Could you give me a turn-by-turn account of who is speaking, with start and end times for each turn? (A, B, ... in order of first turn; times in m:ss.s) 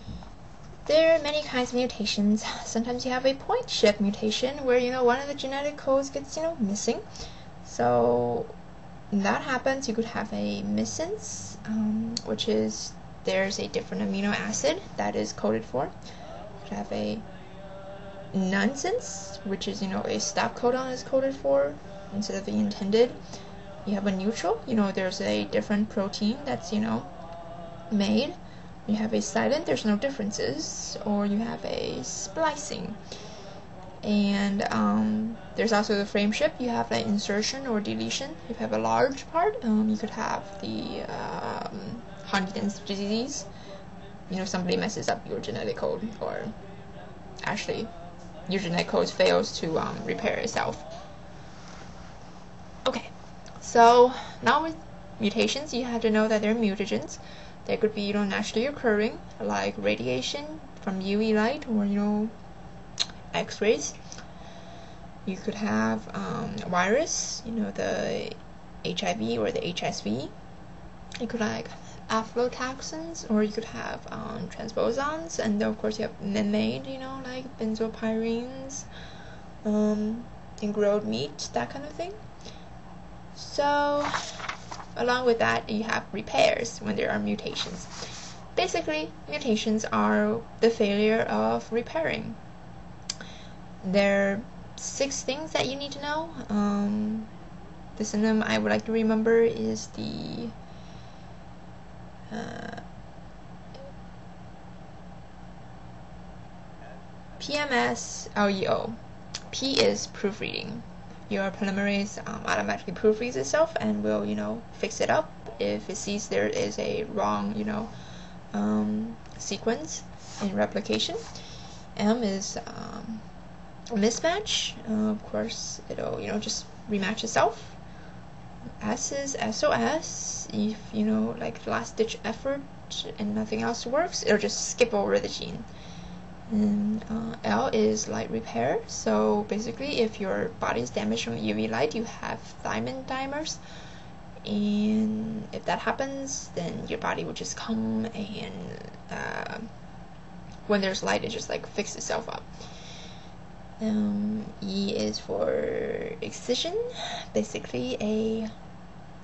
0:00.8-0:07.0 A
0:07.6-0:08.5 A
0:09.1-0:15.9 A
0:16.6-0:17.2 A
0:18.3-0:23.2 A
0:23.8-0:27.1 A
0:27.9-0:33.0 A
0:34.0-0:43.5 A
0:44.3-0:46.6 A
0:47.4-0:47.9 A
0:48.5-0:50.8 A
0:52.8-1:02.3 A
1:03.3-1:04.0 A
1:05.2-1:10.3 A
1:11.2-1:18.9 A
1:19.6-1:22.2 A
1:23.3-1:24.4 A
1:24.9-1:32.4 A
1:33.8-1:37.3 A
1:38.0-1:40.5 A
1:42.3-1:42.8 A
1:47.4-1:49.0 A
1:49.5-1:57.9 A
1:58.5-2:01.2 A
2:01.9-2:03.2 A
2:03.9-2:07.8 A
2:08.8-2:15.7 A
2:16.5-2:23.6 A
2:24.4-2:29.7 A
2:30.7-2:32.5 A
2:33.8-2:38.5 A